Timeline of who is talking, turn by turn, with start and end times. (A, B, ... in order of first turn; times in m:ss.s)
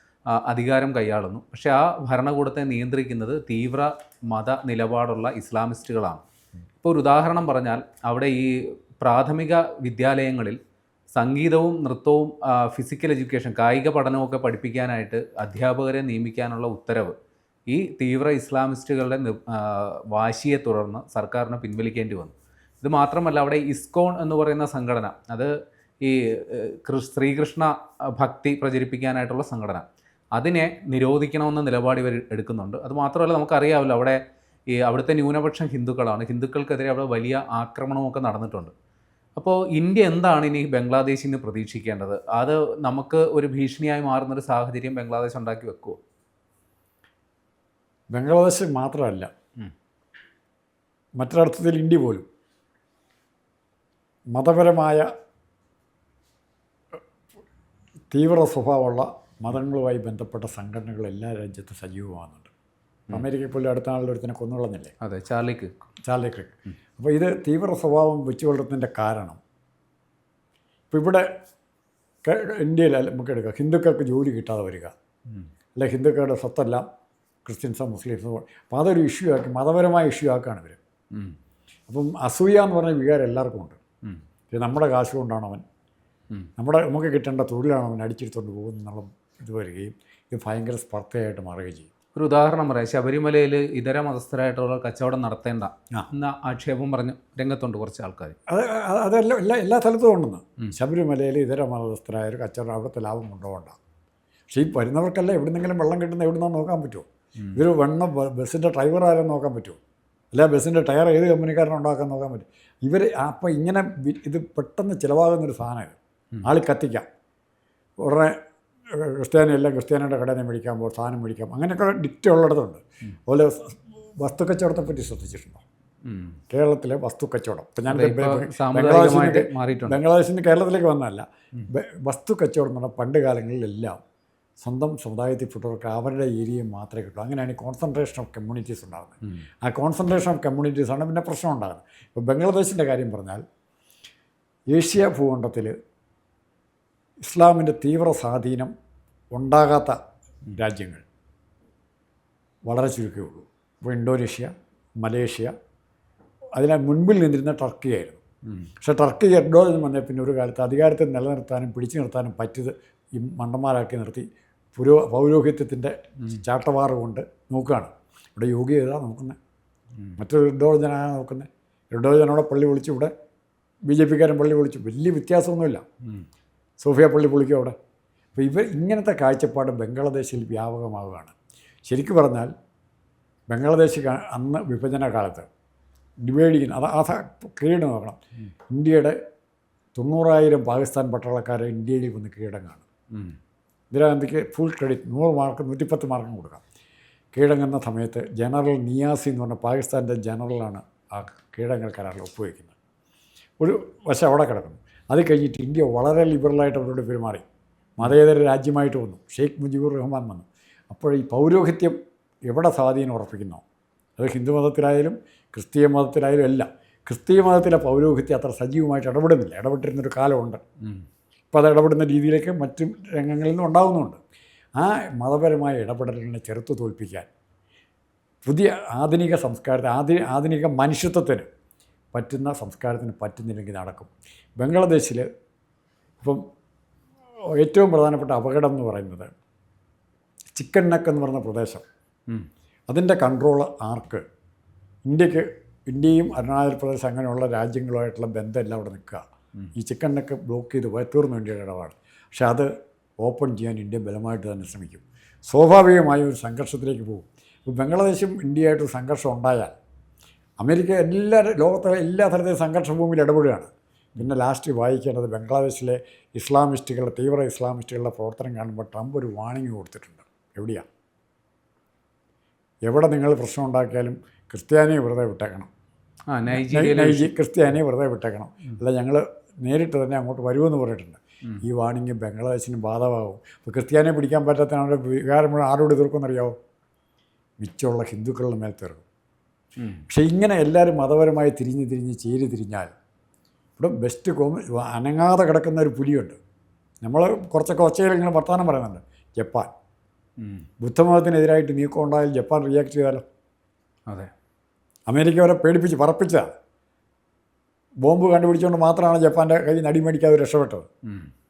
0:00.3-0:06.2 A
0:06.8-0:10.6 A
0:11.1-0:17.1 A
0:17.7-0:29.8 A
0:30.4-0:34.2 A
0:34.7-0:38.7 A
0:39.4-0:46.0 A
0:48.1-0:49.3 B
0:51.2-0:52.2 B
0:54.3-0:55.1 B
0:58.1-1:02.5 B
1:03.1-1:04.9 B
1:05.0-1:05.7 A
1:06.0-1:09.4 B
1:10.9-1:11.2 B
1:12.2-1:14.9 B
1:15.8-1:16.8 B
1:17.4-1:20.8 B
1:21.9-1:23.8 B
1:24.5-1:25.6 B
1:26.6-1:31.9 B
1:32.2-1:38.4 A
1:38.5-1:43.8 B
1:44.5-1:49.8 B
1:50.3-1:57.1 B
1:58.0-1:58.4 B
1:58.9-2:05.6 B
2:06.0-2:06.4 A
2:06.5-2:14.0 B
2:07.9-2:10.0 A
2:14.6-2:23.4 B
2:24.7-2:25.7 B
2:27.2-2:28.7 B
2:29.3-2:30.0 B
2:30.5-2:31.0 B
2:32.7-2:35.5 B
2:36.6-2:38.2 B
2:38.5-2:38.7 A
2:38.8-2:49.4 B
2:50.2-2:53.1 B
2:53.9-2:55.8 B
2:56.8-2:57.8 B
2:58.4-3:01.3 B
3:01.9-3:02.5 B
3:03.5-3:05.5 B
3:06.2-3:08.2 B
3:08.7-3:09.2 B
3:10.0-3:12.8 B
3:13.9-3:16.6 B
3:17.3-3:22.7 B
3:23.6-3:27.4 B
3:28.0-3:32.0 B
3:32.5-3:33.6 B
3:34.2-3:40.6 B
3:41.5-3:44.2 B
3:44.8-3:47.3 B
3:48.5-3:51.5 B
3:52.1-3:55.2 B
3:57.5-3:59.3 B
4:00.6-4:01.8 B
4:02.9-4:04.2 B
4:05.1-4:09.2 B
4:09.8-4:12.7 B
4:13.2-4:19.8 B
4:20.6-4:30.8 B
4:32.8-4:35.7 B
4:36.3-4:37.3 A
4:36.5-4:46.6 B
4:47.6-4:49.0 B
4:49.8-4:50.0 A
4:50.1-4:52.9 B
4:53.8-4:56.4 B
4:57.0-4:59.7 B
5:00.4-5:00.7 A
5:00.8-5:03.2 B
5:05.1-5:06.5 B
5:08.0-5:10.9 B
5:11.1-5:11.3 A